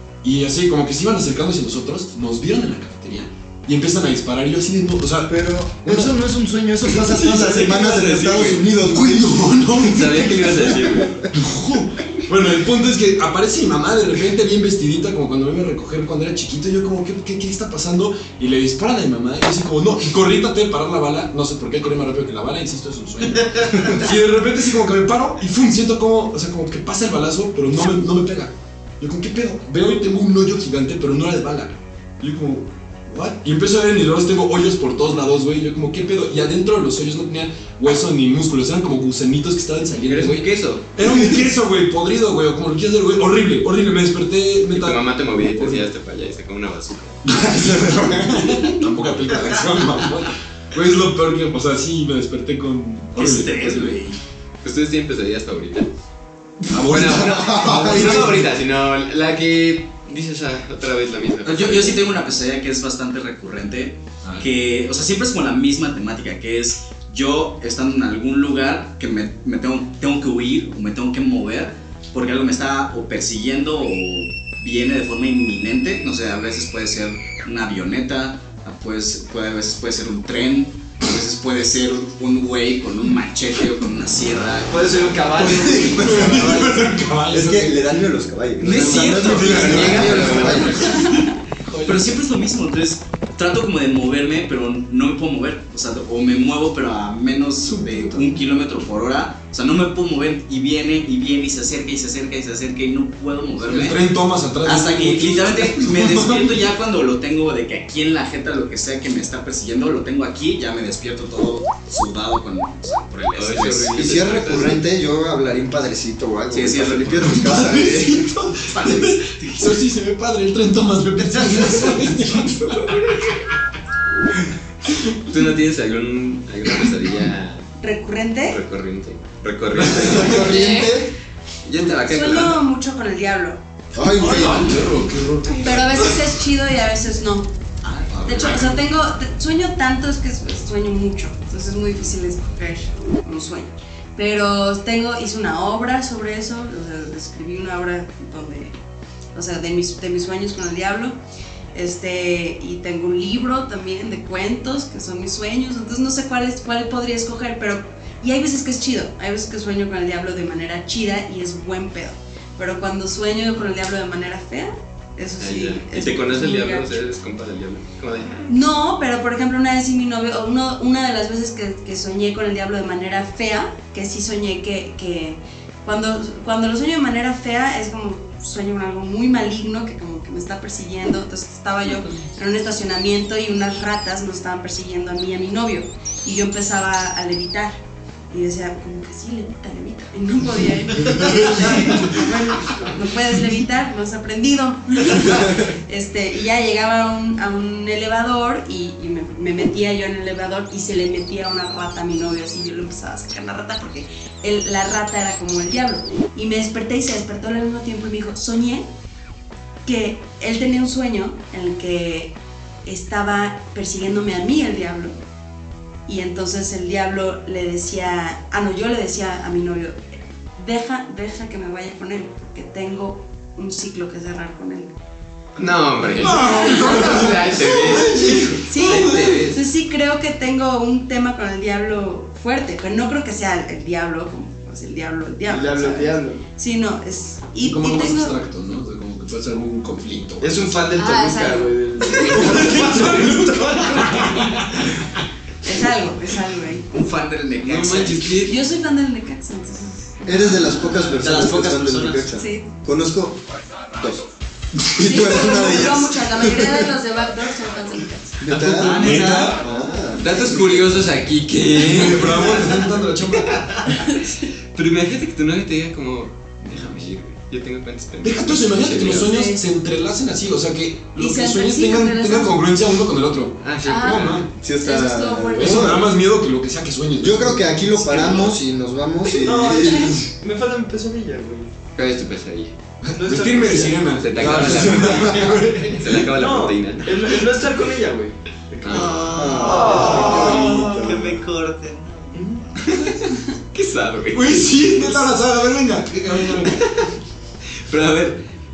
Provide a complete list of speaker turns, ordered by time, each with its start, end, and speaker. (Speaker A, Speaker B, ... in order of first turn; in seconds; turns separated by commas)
Speaker A: 0.2-6.1, Speaker B: 5.3-11.3, Speaker C: 6.9-8.6, Speaker A: 8.7-10.6, Speaker C: 9.9-11.3, Speaker A: 11.3-45.9, Speaker C: 40.1-40.9, Speaker C: 44.7-47.2, Speaker A: 47.2-54.0, Speaker B: 47.6-48.1, Speaker D: 53.1-54.2, Speaker C: 54.6-55.9, Speaker A: 56.7-58.5, Speaker C: 56.8-62.0, Speaker B: 57.1-58.4, Speaker D: 61.4-84.9, Speaker E: 84.7-86.7, Speaker A: 85.4-87.8, Speaker B: 85.6-91.0, Speaker D: 88.6-104.0, Speaker C: 88.6-91.1, Speaker A: 88.7-91.1, Speaker A: 91.6-92.2, Speaker A: 97.6-98.3, Speaker A: 103.6-106.5, Speaker D: 104.6-114.2, Speaker C: 113.3-114.8, Speaker B: 113.9-118.2, Speaker D: 116.5-118.1, Speaker A: 117.2-123.5, Speaker D: 118.7-119.8, Speaker D: 121.4-121.8, Speaker A: 124.9-125.2, Speaker C: 125.3-127.7, Speaker F: 127.8-128.6, Speaker C: 128.4-130.4, Speaker A: 129.8-130.5, Speaker B: 129.9-131.1, Speaker F: 130.3-131.0, Speaker C: 131.6-132.6, Speaker F: 132.0-133.6, Speaker B: 133.9-134.8, Speaker A: 134.2-136.3, Speaker F: 135.4-137.5, Speaker D: 137.8-138.3, Speaker A: 138.2-138.8, Speaker F: 138.2-148.8, Speaker F: 149.3-151.2, Speaker F: 151.7-167.0, Speaker C: 165.4-168.5, Speaker F: 168.5-187.8, Speaker F: 188.3-208.8, Speaker A: 191.1-192.1, Speaker F: 209.8-215.2, Speaker F: 216.1-220.0, Speaker F: 220.6-224.9, Speaker C: 225.6-229.6, Speaker A: 226.2-229.4, Speaker F: 226.3-227.2, Speaker F: 228.6-238.4, Speaker E: 235.4-236.4, Speaker A: 237.6-240.8, Speaker E: 240.4-244.5, Speaker F: 240.9-242.5, Speaker A: 242.3-244.9, Speaker F: 245.6-246.9, Speaker D: 246.9-248.4, Speaker C: 247.6-248.6, Speaker F: 248.4-250.6, Speaker B: 250.2-254.2, Speaker D: 250.6-252.3, Speaker F: 252.3-252.7, Speaker B: 254.8-256.9, Speaker F: 255.0-258.4, Speaker B: 258.4-260.6, Speaker C: 258.5-258.9, Speaker A: 258.6-259.6, Speaker D: 258.7-260.1, Speaker C: 260.1-262.8, Speaker A: 261.7-263.9, Speaker F: 263.9-264.5, Speaker C: 264.7-269.3, Speaker A: 268.2-274.5, Speaker F: 269.2-269.6, Speaker F: 271.1-272.6, Speaker C: 273.6-274.4, Speaker F: 273.8-276.0, Speaker B: 274.5-276.1, Speaker A: 275.5-278.5, Speaker B: 277.2-280.2, Speaker E: 279.3-281.7, Speaker C: 281.9-282.8, Speaker E: 283.1-284.6, Speaker A: 283.2-286.3, Speaker C: 284.2-287.4, Speaker E: 286.3-290.9, Speaker C: 288.8-289.3, Speaker D: 288.9-292.4, Speaker B: 289.2-291.4, Speaker E: 292.3-292.6, Speaker C: 292.8-295.1, Speaker A: 294.3-296.9, Speaker C: 296.5-297.1, Speaker C: 297.7-298.4